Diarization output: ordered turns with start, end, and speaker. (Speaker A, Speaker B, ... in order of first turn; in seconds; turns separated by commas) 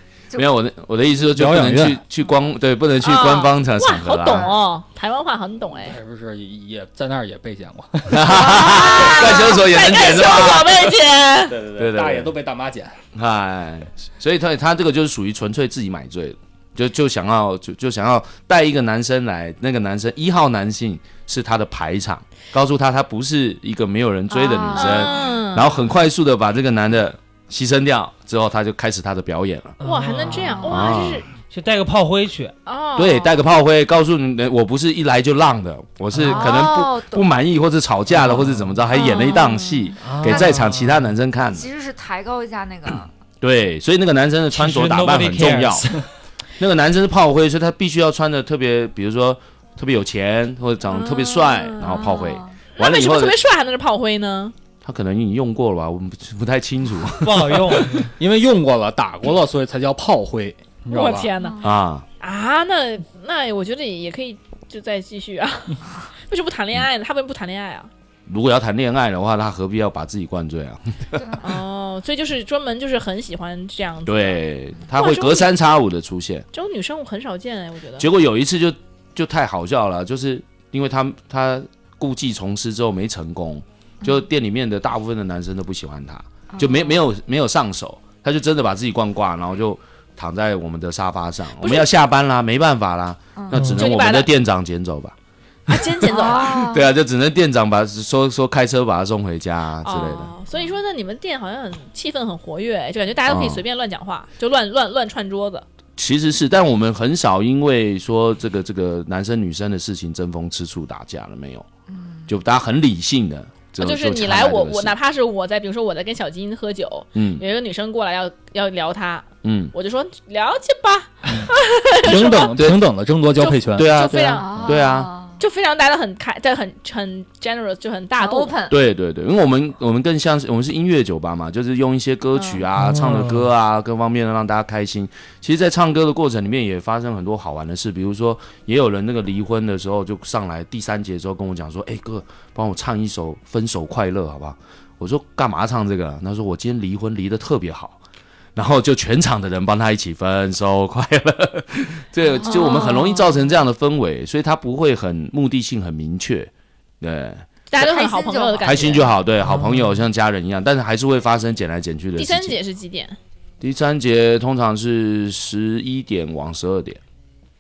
Speaker A: 0.4-4.5, Speaker B: 1.3-2.0, Speaker C: 3.0-6.0, Speaker D: 4.3-4.5, Speaker B: 5.8-8.7, Speaker A: 8.1-10.9, Speaker C: 8.4-11.6, Speaker B: 11.5-13.0, Speaker A: 11.7-12.3, Speaker A: 13.1-29.8, Speaker D: 24.3-25.2, Speaker C: 24.7-25.7, Speaker E: 29.8-30.8, Speaker C: 29.8-31.3, Speaker D: 30.3-30.9, Speaker A: 30.6-31.2, Speaker E: 31.5-32.5, Speaker C: 32.6-33.4, Speaker A: 33.0-41.6, Speaker E: 36.1-36.6, Speaker D: 36.2-37.3, Speaker E: 38.1-38.6, Speaker C: 38.9-39.8, Speaker D: 39.1-39.5, Speaker E: 40.0-41.1, Speaker D: 40.2-40.7, Speaker D: 41.5-43.1, Speaker A: 43.4-45.9, Speaker E: 44.5-46.1, Speaker A: 46.6-53.4, Speaker C: 50.9-52.2, Speaker D: 51.9-52.6, Speaker C: 52.8-54.5, Speaker A: 54.8-58.1, Speaker E: 57.2-58.1, Speaker B: 58.2-61.3, Speaker C: 60.9-61.6, Speaker D: 61.4-61.8, Speaker A: 61.6-62.0, Speaker C: 62.2-67.9, Speaker A: 68.3-70.9, Speaker C: 71.4-74.4, Speaker A: 74.1-76.5, Speaker C: 75.0-75.5, Speaker C: 76.5-78.1, Speaker A: 78.0-95.1, Speaker D: 86.5-87.0, Speaker C: 91.6-91.9, Speaker D: 93.4-93.7, Speaker C: 93.7-94.3, Speaker C: 95.7-96.6, Speaker D: 96.1-96.9, Speaker A: 96.3-100.3, Speaker C: 99.8-105.6, Speaker A: 103.3-103.6, Speaker A: 106.0-111.7, Speaker D: 111.9-112.3, Speaker A: 112.3-115.0, Speaker C: 113.8-122.5, Speaker A: 117.1-117.4, Speaker A: 119.4-119.7, Speaker B: 122.0-124.2, Speaker A: 122.5-122.8, Speaker C: 123.4-124.6, Speaker A: 123.7-125.1, Speaker D: 124.3-125.4, Speaker C: 125.4-128.6, Speaker D: 128.2-128.8, Speaker A: 128.7-148.0, Speaker D: 132.4-132.6, Speaker E: 132.8-133.3, Speaker A: 148.6-157.5, Speaker D: 152.4-153.3, Speaker C: 152.5-153.2, Speaker C: 157.7-159.1, Speaker D: 157.7-159.1, Speaker A: 158.6-162.6, Speaker E: 159.4-160.0, Speaker C: 162.2-163.2, Speaker A: 163.6-167.0